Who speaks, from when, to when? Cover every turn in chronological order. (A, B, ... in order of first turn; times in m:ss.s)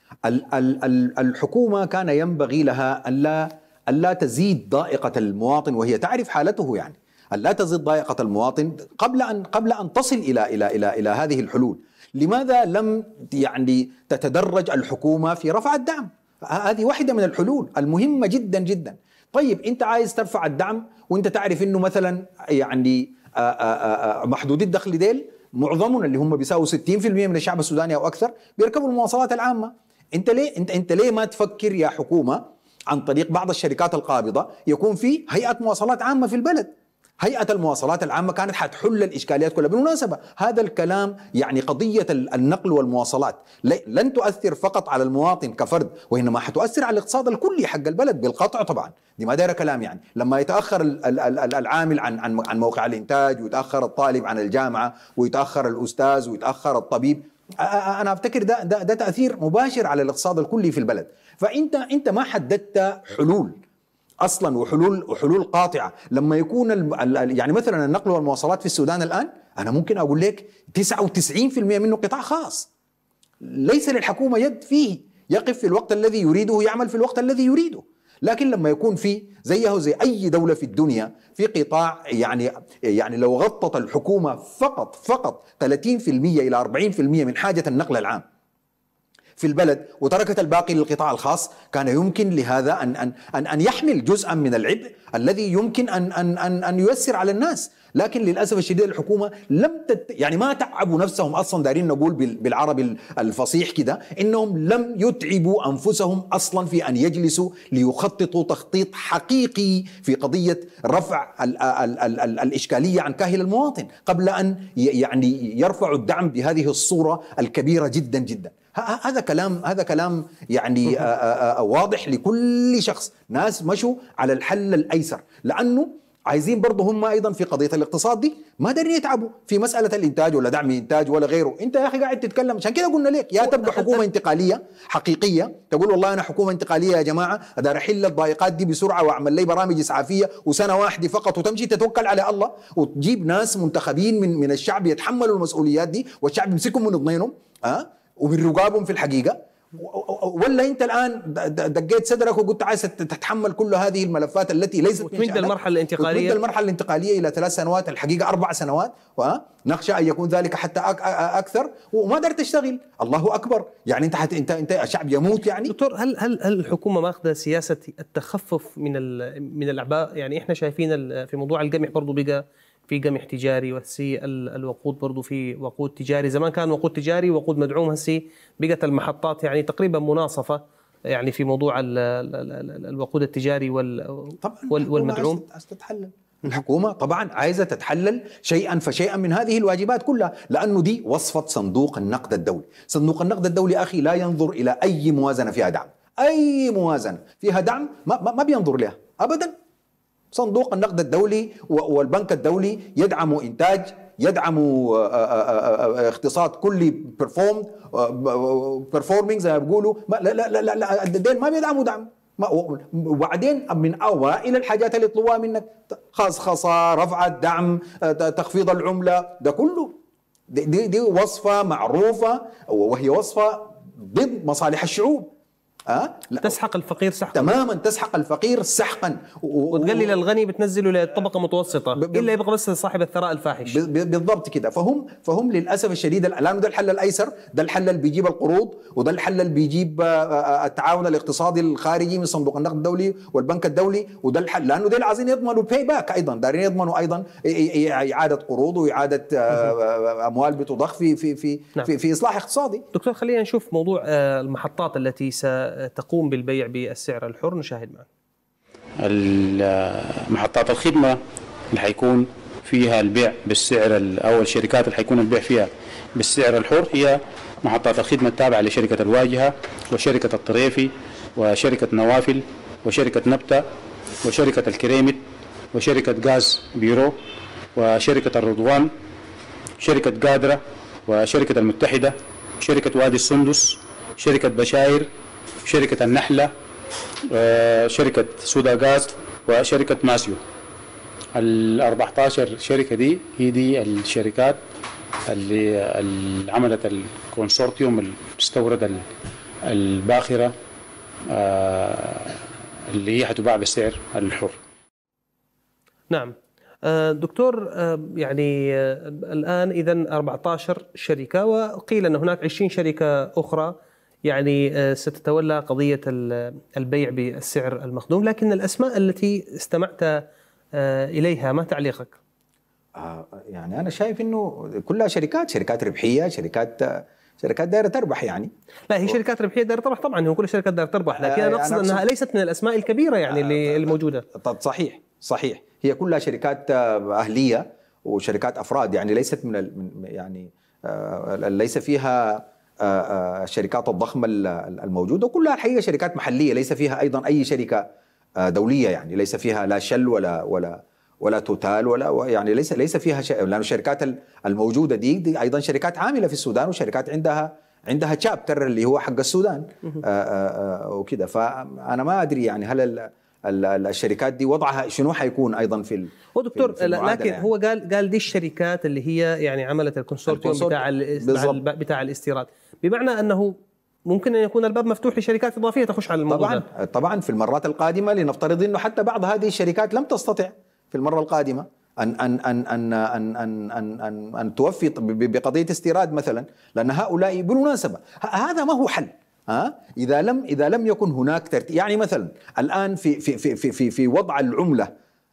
0:00.2-1:03.6 A
1:04.2-1:12.7 A
1:13.4-1:28.2 A
1:29.4-2:45.7 A
2:13.4-2:14.0 B
2:35.0-2:36.4 B
2:45.7-3:05.4 B
3:04.4-3:19.5 A
3:20.3-3:40.0 A
3:40.5-3:45.3 A
3:45.9-3:46.6 A
3:46.4-3:47.6 B
3:47.3-3:50.2 A
3:49.7-3:53.8 B
3:52.0-3:52.3 A
3:53.6-4:12.8 A
4:12.9-4:18.1 B
4:19.0-4:21.2 C
4:21.7-4:33.6 C
4:34.2-4:37.2 C
4:37.7-4:38.9 C
4:39.8-4:45.1 C
4:45.6-4:46.5 C
4:47.3-4:50.4 C
4:51.3-4:54.6 C
4:55.3-4:59.0 C
4:59.7-5:00.5 C
5:01.3-5:04.6 C
5:06.8-5:13.7 B
5:14.2-5:20.1 B
5:20.8-5:22.2 B
5:23.0-5:28.5 A
5:28.9-5:34.2 B
5:31.1-5:32.0 A
5:33.3-5:47.8 A
5:48.4-6:07.5 A
6:06.3-6:13.5 B
6:10.3-6:11.6 A
6:14.1-6:16.6 B
6:16.3-6:34.9 A